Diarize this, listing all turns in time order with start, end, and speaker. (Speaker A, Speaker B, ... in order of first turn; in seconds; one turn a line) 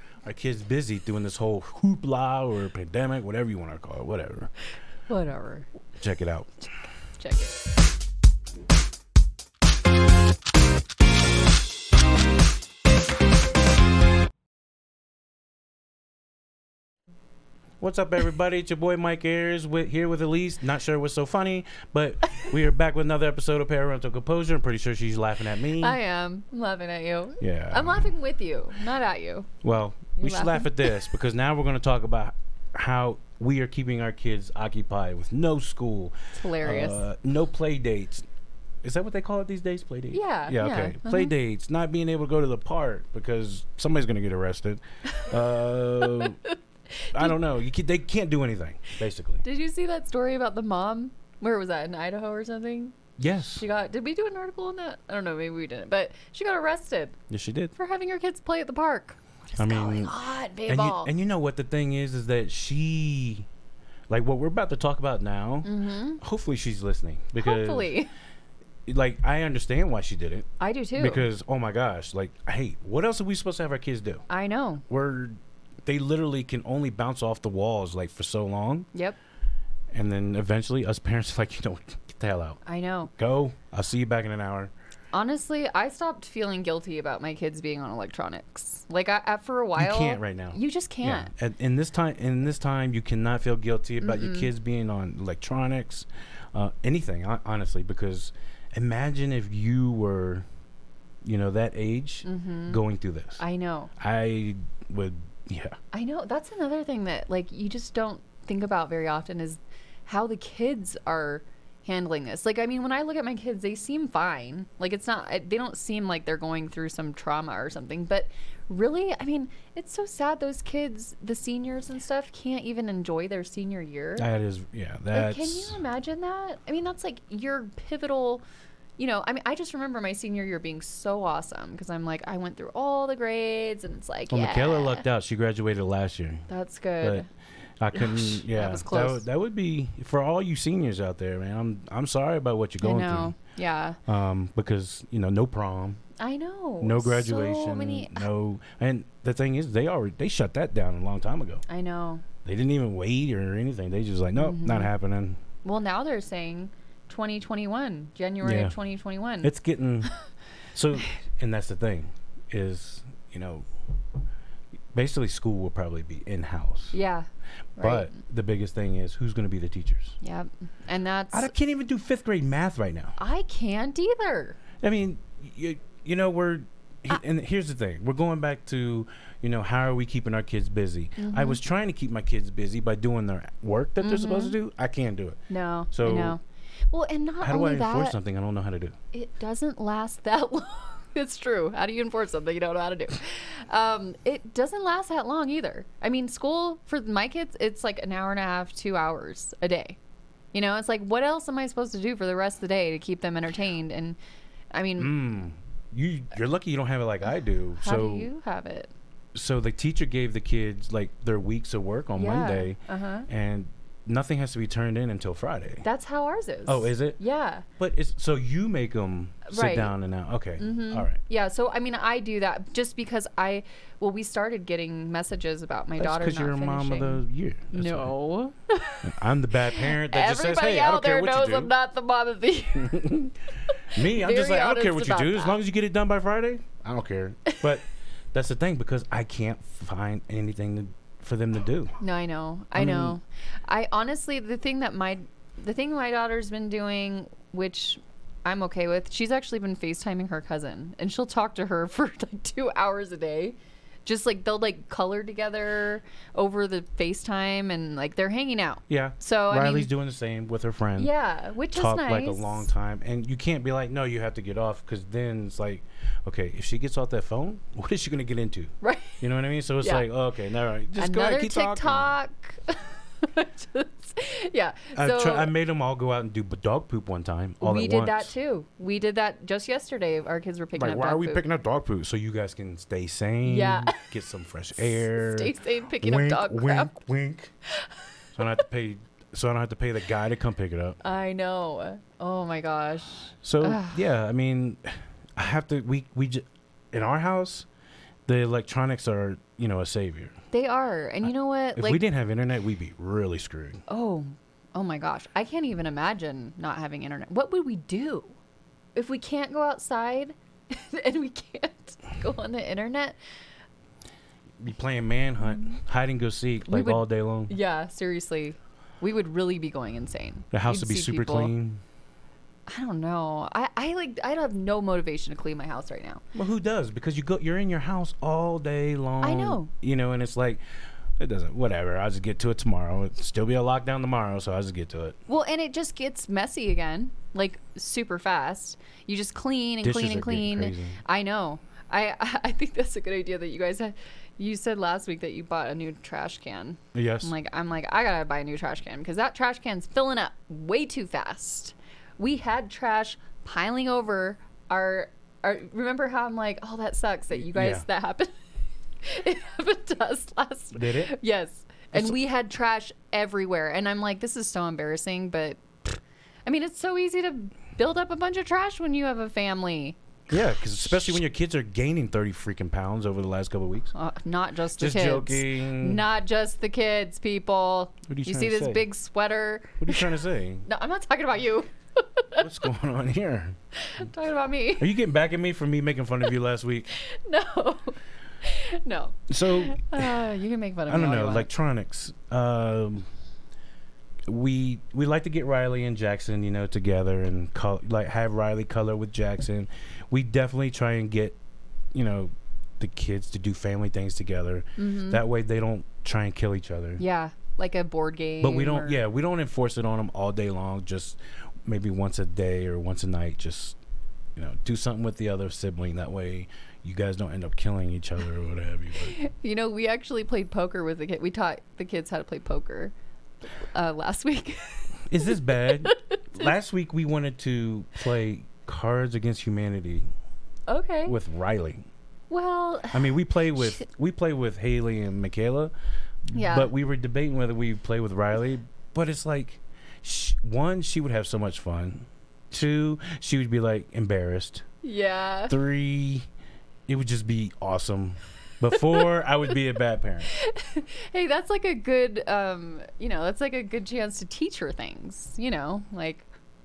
Speaker A: 0.2-4.5
Speaker B: 5.1-5.7
Speaker A: 6.0-6.6
Speaker B: 7.2-7.5
Speaker A: 17.8-26.0
Speaker B: 25.8-29.5
Speaker A: 27.4-28.1
Speaker A: 29.6-38.2
Speaker B: 30.2-31.0
Speaker B: 36.3-37.0
Speaker A: 38.8-46.4
Speaker B: 40.1-41.4
Speaker B: 45.1-45.4
Speaker B: 46.0-47.4
Speaker A: 47.1-49.4
Speaker B: 49.4-57.2
Speaker A: 53.2-53.6
Speaker A: 57.3-57.7
Speaker B: 57.8-61.1
Speaker A: 59.6-60.2
Speaker A: 60.7-63.5
Speaker A: 64.1-67.9
Speaker B: 65.6-66.2
Speaker B: 67.4-68.1
Speaker A: 68.9-70.5
Speaker B: 70.6-71.3
Speaker A: 71.0-74.2
Speaker B: 74.3-74.8
Speaker A: 74.9-78.9
Speaker A: 79.9-82.6
Speaker B: 82.7-83.1
Speaker A: 83.2-84.7
Speaker B: 85.1-91.3
Speaker A: 89.8-100.5
Speaker B: 94.0-94.5
Speaker A: 101.2-103.4
Speaker B: 102.2-102.8
Speaker B: 103.4-103.9
Speaker A: 104.0-105.8
Speaker B: 105.9-124.3
Speaker A: 124.2-125.8
Speaker B: 125.1-128.4
Speaker B: 129.0-135.1
Speaker A: 134.3-136.5
Speaker B: 136.5-137.3
Speaker A: 137.8-143.3
Speaker B: 137.9-139.3
Speaker B: 142.8-144.0
Speaker A: 144.1-146.0
Speaker B: 146.2-148.3
Speaker A: 146.8-151.6
Speaker B: 151.7-152.2
Speaker A: 152.4-155.4
Speaker B: 154.3-154.9
Speaker B: 155.6-159.5
Speaker A: 158.4-158.8
Speaker A: 159.4-160.2
Speaker A: 160.7-163.7
Speaker A: 164.9-167.0
Speaker B: 166.9-168.1
Speaker A: 167.8-170.2
Speaker B: 170.2-171.5
Speaker A: 171.3-173.2
Speaker B: 173.2-174.6
Speaker A: 174.8-185.4
Speaker B: 181.2-181.6
Speaker B: 184.0-184.6
Speaker B: 185.5-188.2
Speaker A: 185.9-186.4
Speaker A: 187.4-188.9
Speaker B: 189.1-200.0
Speaker B: 200.5-204.2
Speaker B: 204.7-205.1
Speaker A: 205.0-208.3
Speaker B: 207.8-208.9
Speaker A: 209.3-215.8
Speaker B: 212.2-213.3
Speaker B: 215.8-217.7
Speaker A: 216.7-217.2
Speaker A: 217.8-221.2
Speaker B: 219.5-219.9
Speaker B: 220.6-229.1
Speaker A: 226.0-228.1
Speaker A: 229.0-231.7
Speaker B: 229.6-233.2
Speaker A: 232.9-233.3
Speaker B: 233.8-235.6
Speaker A: 233.9-241.9
Speaker B: 242.0-259.9
Speaker A: 242.8-243.2
Speaker A: 258.9-261.1
Speaker B: 261.0-262.7
Speaker A: 261.7-272.1
Speaker B: 268.8-269.2
Speaker B: 269.8-270.1
Speaker B: 270.9-275.5
Speaker A: 274.9-278.3
Speaker B: 277.6-281.4
Speaker A: 280.8-287.5
Speaker B: 283.4-284.0
Speaker B: 284.8-286.9
Speaker B: 287.7-288.6
Speaker A: 288.4-291.0
Speaker B: 291.0-294.1
Speaker A: 293.4-297.7
Speaker A: 298.3-300.4
Speaker B: 300.5-302.0
Speaker A: 301.3-303.8
Speaker B: 303.9-308.4
Speaker B: 308.9-313.2
Speaker A: 314.6-317.5
Speaker B: 316.7-321.5
Speaker A: 320.5-321.8
Speaker B: 322.7-326.2
Speaker A: 326.3-330.6
Speaker B: 329.2-329.7
Speaker A: 331.2-335.1
Speaker B: 335.3-358.3
Speaker A: 339.8-341.0
Speaker A: 346.9-347.3
Speaker A: 357.4-357.9
Speaker B: 359.0-370.0
Speaker A: 360.7-361.1
Speaker A: 370.3-373.9
Speaker B: 373.9-382.5
Speaker A: 374.8-376.1
Speaker A: 378.1-378.9
Speaker A: 379.8-380.7
Speaker A: 382.4-383.6
Speaker B: 383.8-384.9
Speaker A: 384.8-386.9
Speaker B: 386.9-391.5
Speaker A: 389.3-390.2
Speaker A: 390.9-393.1
Speaker A: 394.3-401.4
Speaker A: 401.9-407.0
Speaker B: 404.8-405.2
Speaker B: 407.0-409.0
Speaker A: 408.4-413.8
Speaker A: 414.4-419.2
Speaker B: 419.0-422.9
Speaker B: 423.7-426.5
Speaker A: 425.1-430.1
Speaker B: 430.7-431.2
Speaker A: 431.1-431.9
Speaker B: 432.3-433.8
Speaker A: 432.9-435.7
Speaker A: 436.3-444.6
Speaker B: 436.3-436.7
Speaker B: 444.8-445.6
Speaker A: 445.5-446.3
Speaker A: 446.9-450.3
Speaker B: 450.3-456.3